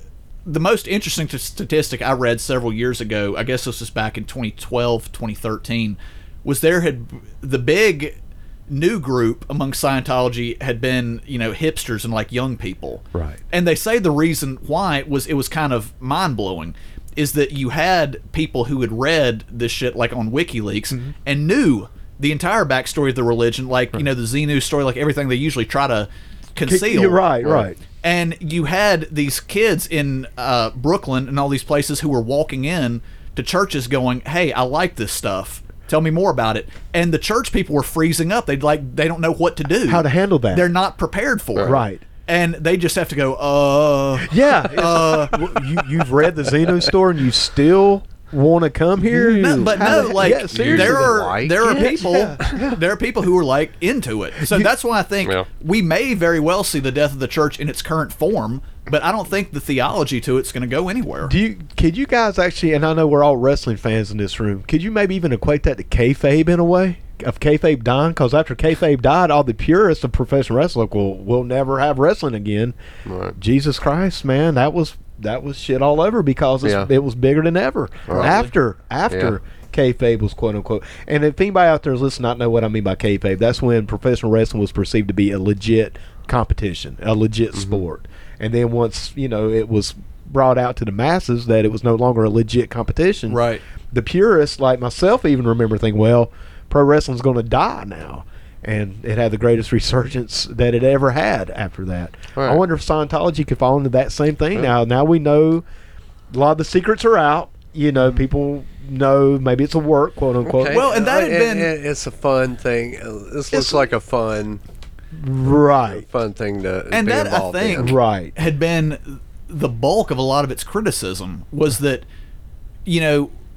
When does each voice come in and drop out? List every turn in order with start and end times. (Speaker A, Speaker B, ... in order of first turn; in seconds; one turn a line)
Speaker A: 0.5-8.2
Speaker A: 8.7-45.8
Speaker B: 13.1-13.4
Speaker B: 26.6-27.8
Speaker B: 39.9-40.7
Speaker B: 41.6-42.0
Speaker B: 44.2-52.8
Speaker C: 49.1-52.5
Speaker A: 49.2-61.3
Speaker B: 54.4-54.7
Speaker B: 61.2-72.7
Speaker C: 73.0-73.3
Speaker B: 73.3-105.6
Speaker C: 76.6-76.9
Speaker C: 78.1-78.3
Speaker A: 78.1-78.5
Speaker C: 79.1-79.3
Speaker A: 93.3-93.6
Speaker C: 102.3-102.6
Speaker B: 106.3-110.9
Speaker C: 110.4-114.6
Speaker A: 110.7-111.7
Speaker B: 113.5-113.8
Speaker B: 115.1-116.0
Speaker C: 115.9-117.9
Speaker A: 116.9-122.0
Speaker B: 117.7-118.3
Speaker A: 122.8-123.3